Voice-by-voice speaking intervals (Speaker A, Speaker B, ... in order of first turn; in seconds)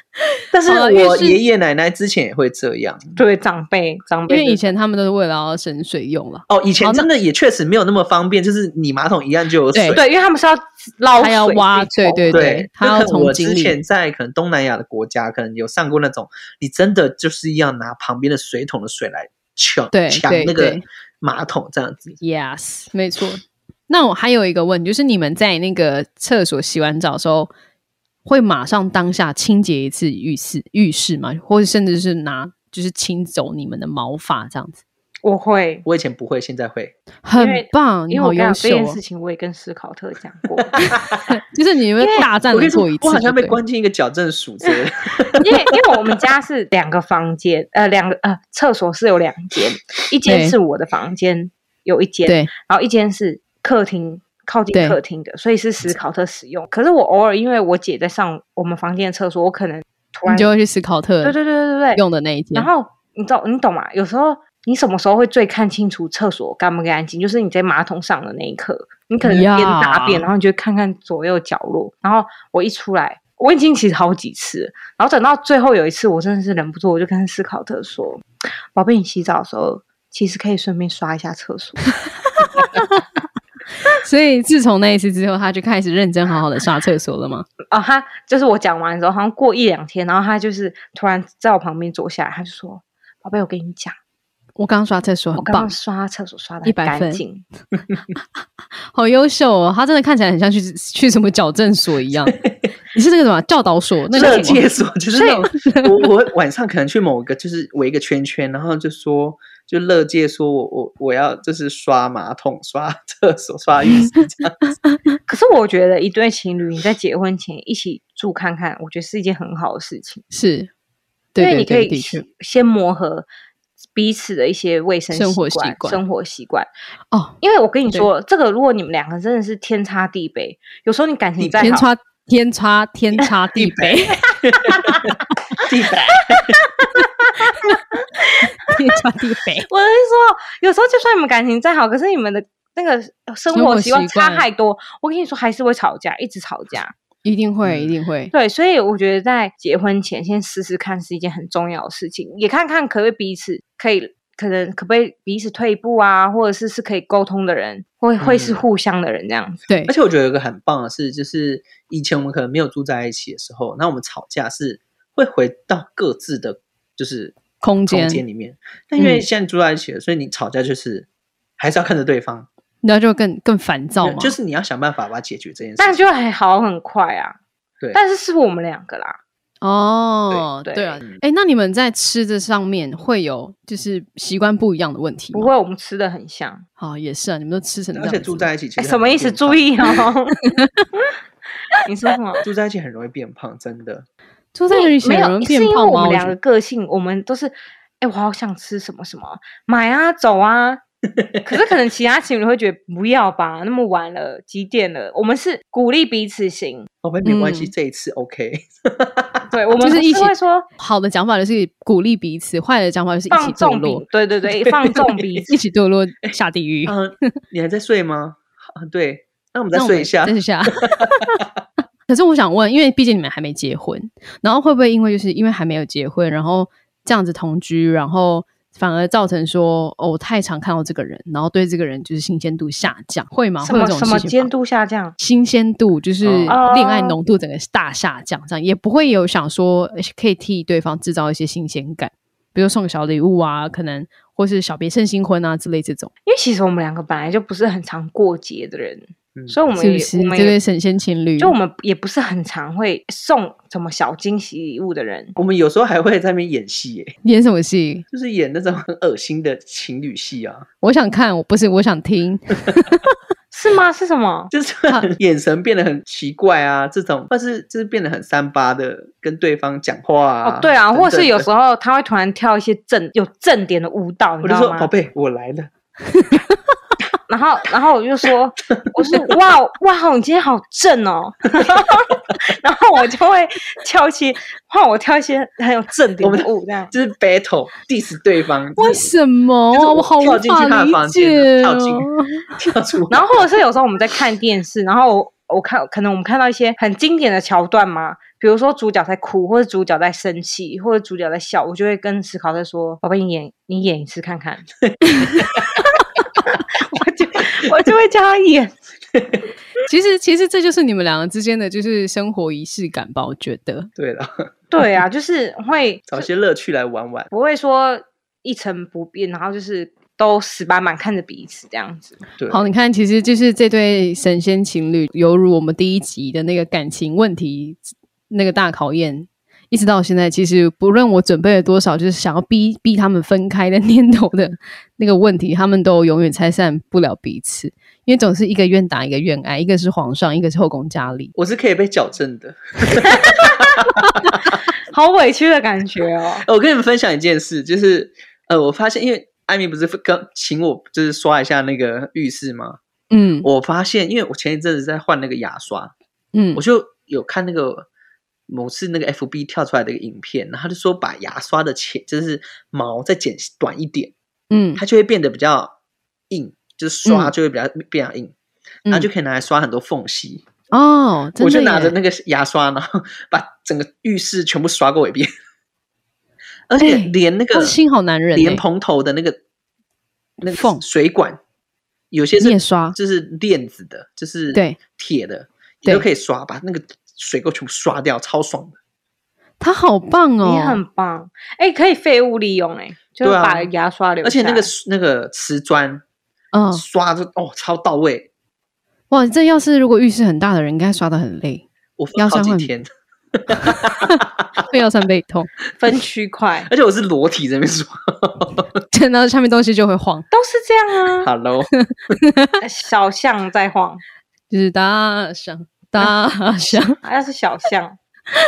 Speaker A: 0.5-3.2, 6.5-10.1, 12.3-22.2, 35.9-36.9, 40.8-41.2, 42.5-46.2, 104.1-114.6, 133.6-136.6, 147.6-147.9, 158.2-158.6, 159.9-171.1, 171.6-172.5, 174.0-176.0, 187.9-189.7, 192.4-194.1, 201.2-201.6, 207.0-209.5, 216.9-221.1, 236.2-236.6, 255.4-257.1, 258.1-260.7, 264.5-271.5, 274.4-275.7, 286.2-289.0, 289.7-293.4, 305.4-305.8, 309.1-309.4, 314.0-314.5, 316.1-317.3, 322.4-322.6, 341.4-344.6, 346.4-352.8, 353.4-355.9, 356.6-357.9, 358.5-364.1, 364.8-365.7, 366.3-368.3, 368.9-370.4, 371.4-375.3, 376.7-377.8, 378.4-379.4, 380.4-381.4, 382.1-388.8, 393.2-393.7, 394.2-396.0, 396.7-398.3, 402.0-404.5, 406.7-408.8, 411.2-411.7
Speaker B: 0.6-1.4, 4.3-7.1, 9.7-10.0, 11.2-13.8, 19.9-20.9, 22.2-27.5, 28.2-34.8, 37.2-39.0, 40.8-43.6, 50.2-50.6, 54.7-55.0, 60.3-61.4, 61.9-62.7, 69.2-70.3, 82.4-83.0, 83.9-87.5, 94.6-95.7, 96.6-97.2, 98.9-102.4, 102.9-104.6, 105.6-105.9, 120.3-120.7, 121.3-122.2, 125.1-126.0, 131.6-134.2, 138.4-139.7, 143.5-144.4, 147.2-148.3, 159.7-159.9, 167.6-168.2, 169.0-169.2, 172.8-174.4, 179.6-185.5, 186.8-188.5, 190.4-190.9, 194.5-196.4, 207.2-207.7, 209.8-214.0, 215.5-217.0, 219.7-221.4, 222.1-234.5, 235.2-246.1, 249.8-251.6, 257.2-258.1, 260.8-263.0, 288.8-292.5, 309.9-313.9, 322.5-341.3, 353.1-353.5, 356.3-356.6, 364.5-364.8, 367.1-367.3, 370.7-371.9, 376.8-378.6, 380.4-380.8, 382.4-382.9, 384.5-384.8, 389.6-390.8, 396.5-396.8, 399.1-401.6, 402.2-402.7, 403.6-405.5, 408.9-410.2, 411.8-412.6, 414.5-417.0
Speaker C: 3.1-4.6, 9.9-12.5, 35.2-35.9, 37.4-40.9, 42.0-42.3, 45.4-60.5, 61.2-62.0, 62.5-78.2, 78.7-81.9, 87.7-94.0, 95.4-97.4, 105.1-105.4, 115.3-120.2, 121.4-123.3, 123.9-126.7, 127.4-131.9, 134.7-135.1, 136.1-137.3, 138.2-138.7, 139.7-146.9, 148.3-159.7, 175.8-177.4, 177.9-179.2, 180.6-181.0, 185.3-186.6, 188.8-190.4, 191.8-192.4, 194.7-200.8, 201.4-206.9, 209.5-210.7, 213.3-215.5, 233.6-235.2, 236.5-237.2, 246.2-250.6, 251.4-255.3, 263.5-264.5, 270.4-274.9, 277.3-286.9, 293.1-304.7, 305.7-308.7, 314.7-316.2, 317.3-322.2, 343.0-343.9, 344.9-346.4, 390.4-394.7, 405.8-406.7, 410.3-411.3, 412.6-414.0, 417.0-418.0